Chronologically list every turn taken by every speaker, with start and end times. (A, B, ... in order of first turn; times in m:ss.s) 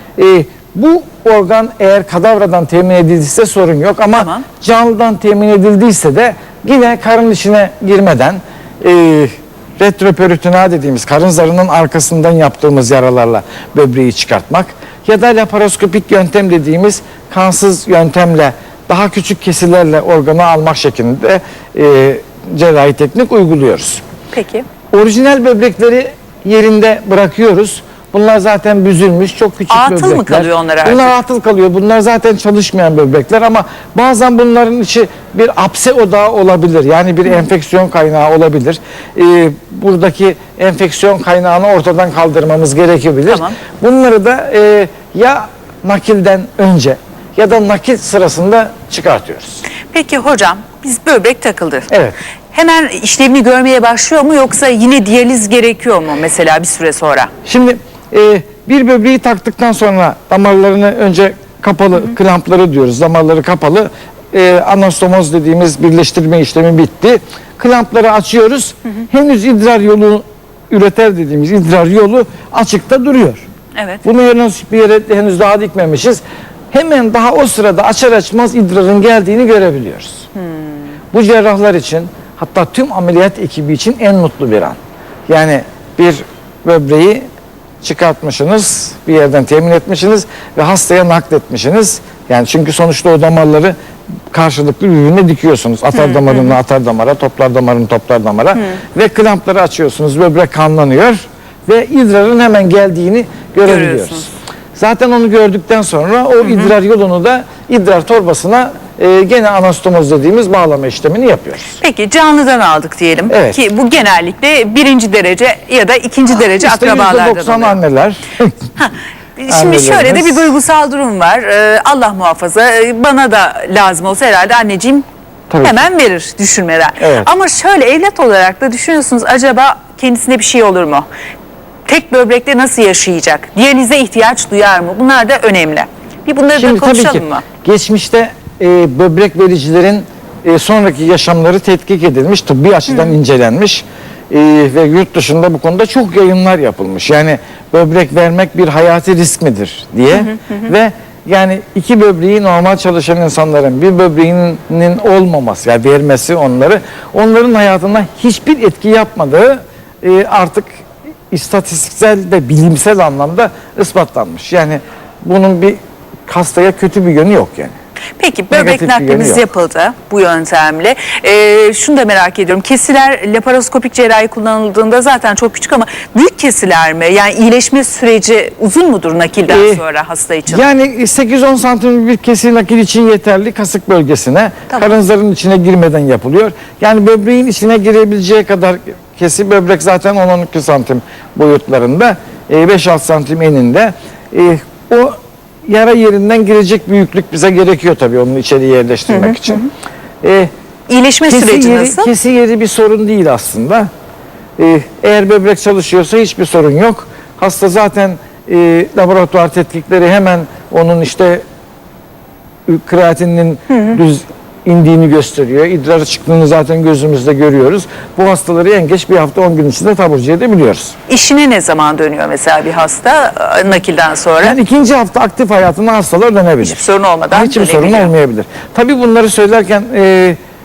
0:00.2-0:24.0 A
0:04.2-0:04.4 B
0:24.3-0:24.6 B
0:24.9-0:49.6 A
0:29.7-0:31.1 B
0:43.3-0:43.5 B
0:49.9-0:51.9 B
0:51.9-0:52.2 A
0:52.5-0:57.3 B
0:57.4-1:13.4 A
1:13.8-1:14.0 B
1:14.0-1:20.3 A
1:21.1-1:27.3 A
1:27.8-1:33.7 A
1:34.3-1:51.8 A
1:35.9-1:36.5 B
1:43.6-1:44.3 B
1:46.4-1:46.7 B
1:51.8-1:57.8 B
1:53.3-1:53.6 A
1:56.3-1:58.6 A
1:58.8-2:05.0 B
1:59.5-2:00.5 A
2:05.5-2:05.8 A
2:05.6-2:11.1 B
2:07.0-2:07.3 A
2:11.8-2:17.4 B
2:16.6-2:40.7 A
2:41.3-2:47.7 A
2:48.2-3:00.6 B
2:48.5-2:49.4 A
2:59.5-2:59.8 A
3:00.5-3:19.6 A
3:19.1-3:19.6 B
3:20.2-3:20.5 A
3:20.9-3:22.1 B
3:21.3-3:23.9 A
3:24.6-3:31.4 A
3:32.7-3:40.9 A
3:41.1-3:44.6 B
3:44.4-3:50.4 A
3:46.6-3:48.1 B